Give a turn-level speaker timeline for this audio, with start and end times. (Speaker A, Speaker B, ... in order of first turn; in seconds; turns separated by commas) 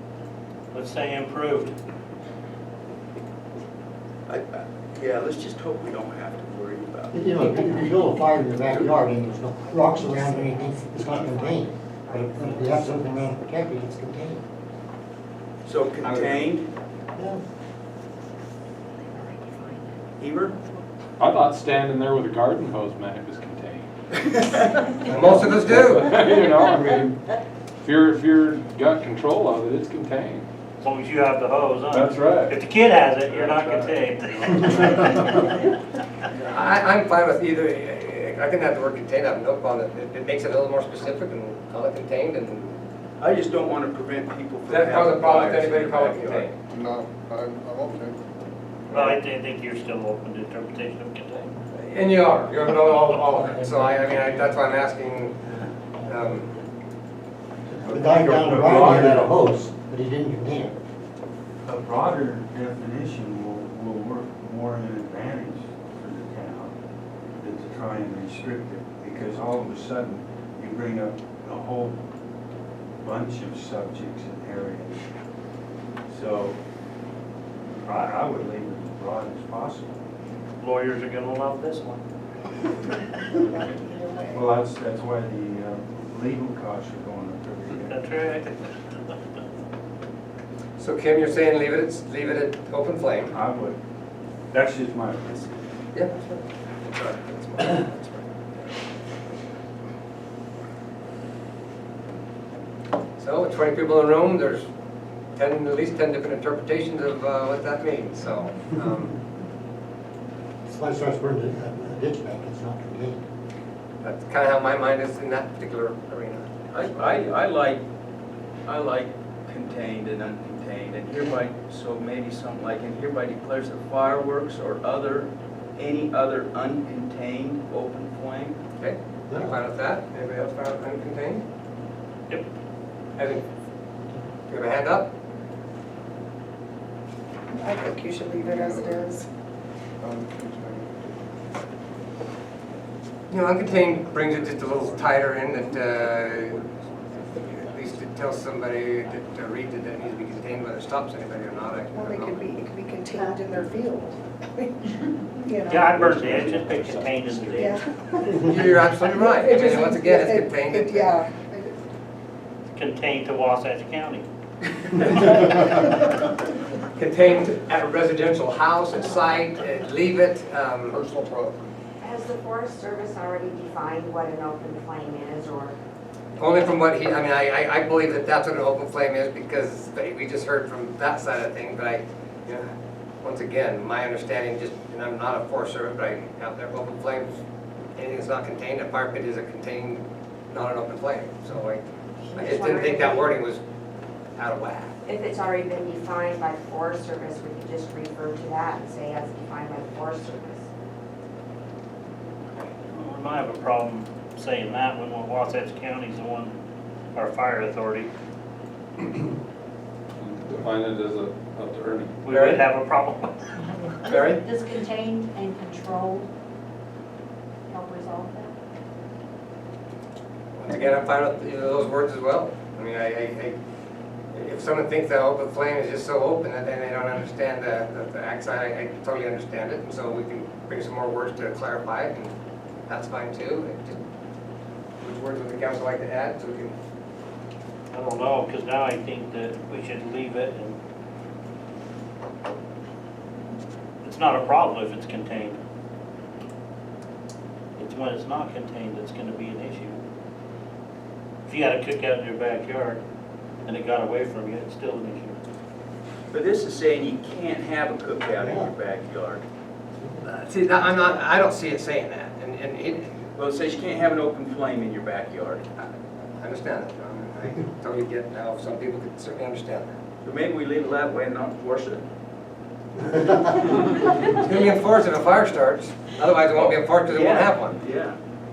Speaker A: 0.7-1.7, Speaker B: 4.3-7.1, Speaker C: 7.1-14.4, Speaker D: 10.5-11.3, Speaker D: 12.0-12.6, Speaker B: 15.6-16.7, Speaker C: 17.2-17.4, Speaker E: 19.2-19.7, Speaker B: 20.2-20.5, Speaker F: 21.2-24.4, Speaker G: 25.0-26.1, Speaker F: 25.1-27.2, Speaker F: 27.8-30.5, Speaker A: 30.8-35.2, Speaker F: 31.9-35.5, Speaker G: 36.4-42.8, Speaker B: 43.2-46.5, Speaker G: 44.7-46.5, Speaker H: 46.7-48.2, Speaker A: 48.9-51.5, Speaker G: 51.7-55.3, Speaker C: 53.3-54.6, Speaker C: 55.4-56.6, Speaker G: 56.0-56.5, Speaker C: 57.6-60.8, Speaker I: 57.8-59.4, Speaker I: 61.6-66.7, Speaker I: 67.4-72.0, Speaker I: 73.0-75.1, Speaker I: 76.1-76.6, Speaker I: 77.8-79.9, Speaker A: 80.6-82.0, Speaker J: 82.8-84.5, Speaker I: 84.3-88.0, Speaker A: 87.8-88.6, Speaker G: 90.8-93.3, Speaker I: 93.3-93.8, Speaker I: 94.5-95.7, Speaker G: 96.8-98.7, Speaker G: 103.2-104.7, Speaker G: 105.3-109.2, Speaker C: 110.7-113.2, Speaker G: 114.0-117.2, Speaker B: 116.7-117.8, Speaker B: 118.7-128.6, Speaker G: 128.8-131.4, Speaker C: 129.3-129.6, Speaker G: 133.2-133.4, Speaker G: 134.5-135.1, Speaker J: 137.5-139.3, Speaker H: 138.5-139.1, Speaker H: 140.0-141.4, Speaker G: 143.3-152.4, Speaker J: 151.9-156.5, Speaker A: 155.7-157.8, Speaker F: 156.0-157.6, Speaker J: 157.5-161.8, Speaker G: 158.4-161.1, Speaker A: 162.7-164.2, Speaker J: 165.3-165.9, Speaker G: 166.9-171.0, Speaker H: 170.9-171.7, Speaker D: 172.0-175.7, Speaker G: 176.4-182.7, Speaker G: 183.2-187.4, Speaker G: 187.9-193.6, Speaker D: 192.2-193.3, Speaker G: 194.4-194.9, Speaker D: 195.0-200.7, Speaker A: 202.9-206.5, Speaker A: 207.1-208.1, Speaker F: 210.2-212.2, Speaker A: 212.2-213.3, Speaker G: 212.3-212.6, Speaker G: 214.0-214.4, Speaker E: 214.5-216.3, Speaker E: 217.7-218.5, Speaker G: 220.6-223.6, Speaker G: 224.3-232.3, Speaker G: 232.9-234.0, Speaker G: 235.0-236.7, Speaker A: 237.9-240.8, Speaker A: 244.0-245.6, Speaker A: 247.8-250.0, Speaker A: 251.4-253.0, Speaker A: 253.7-255.4, Speaker B: 256.3-259.4, Speaker C: 258.4-258.7, Speaker G: 260.2-263.2, Speaker B: 263.4-265.6, Speaker G: 265.8-270.0, Speaker B: 270.2-272.0, Speaker G: 274.2-277.8, Speaker B: 276.5-278.2